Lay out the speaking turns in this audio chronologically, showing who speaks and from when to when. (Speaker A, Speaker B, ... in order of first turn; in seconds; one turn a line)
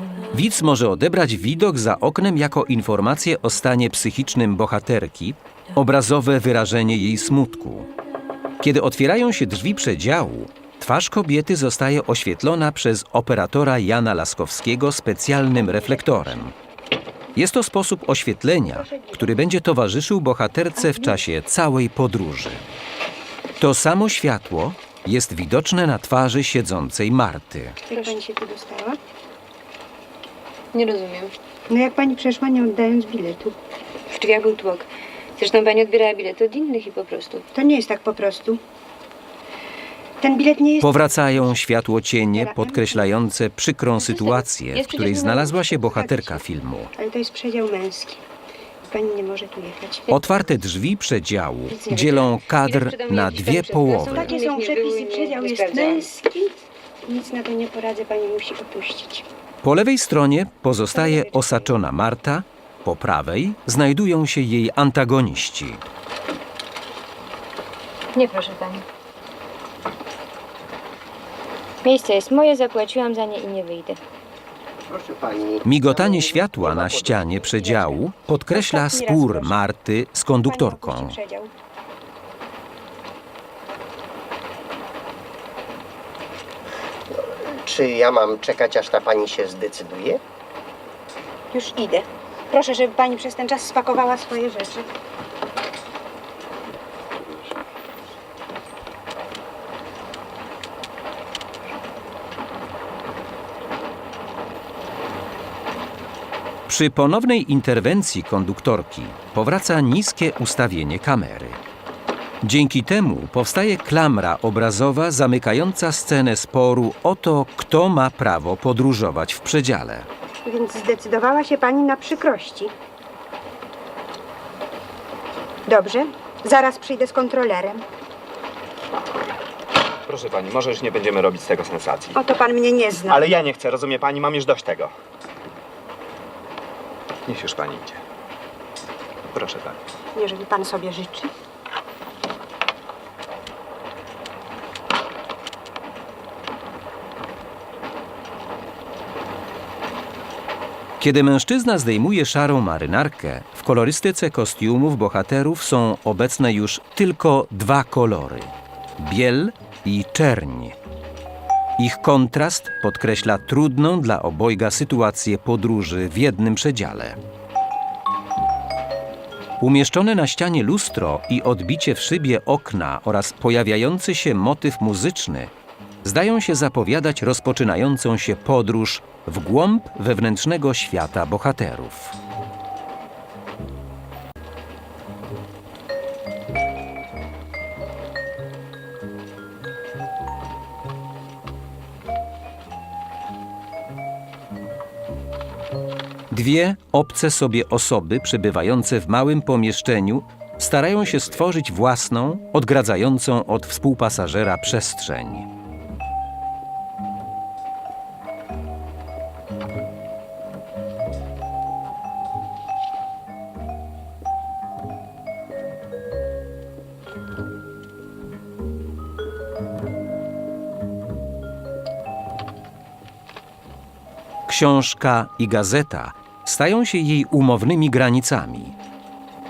Speaker A: 0.3-7.9
Speaker A: 8.6-16.5
Speaker B: 15.6-16.4
Speaker A: 17.4-22.6
Speaker B: 18.7-19.4
Speaker C: 20.9-21.2
Speaker A: 23.6-27.8
Speaker B: 27.9-29.0
Speaker C: 27.9-28.1
Speaker C: 30.7-31.3
Speaker B: 31.7-33.5
Speaker C: 34.1-37.5
Speaker B: 37.5-38.6
Speaker B: 40.2-40.9
Speaker A: 40.8-46.9
Speaker B: 42.3-43.1
Speaker B: 44.0-44.4
Speaker C: 44.7-46.1
Speaker B: 45.9-46.4
Speaker B: 47.0-48.2
Speaker B: 48.8-50.2
Speaker A: 50.1-54.3
Speaker C: 51.7-56.1
Speaker B: 54.0-59.2
Speaker A: 59.6-65.8
Speaker B: 60.9-61.6
Speaker C: 68.1-68.8
Speaker C: 71.8-74.0
Speaker D: 74.9-77.3
Speaker A: 75.6-81.2
Speaker B: 77.3-78.0
Speaker B: 78.5-79.6
Speaker B: 80.4-81.5
Speaker D: 87.1-90.2
Speaker B: 91.5-94.9
Speaker A: 106.7-111.6
Speaker A: 112.4-120.1
Speaker B: 120.4-122.7
Speaker B: 125.7-127.8
Speaker E: 130.1-132.2
Speaker B: 132.1-133.3
Speaker E: 133.1-134.9
Speaker E: 137.3-138.0
Speaker E: 139.3-139.8
Speaker B: 140.1-141.3
Speaker A: 151.0-160.8
Speaker A: 161.8-167.2
Speaker A: 169.6-175.5
Speaker A: 176.0-182.2
Speaker A: 196.3-205.5
Speaker A: 224.5-228.7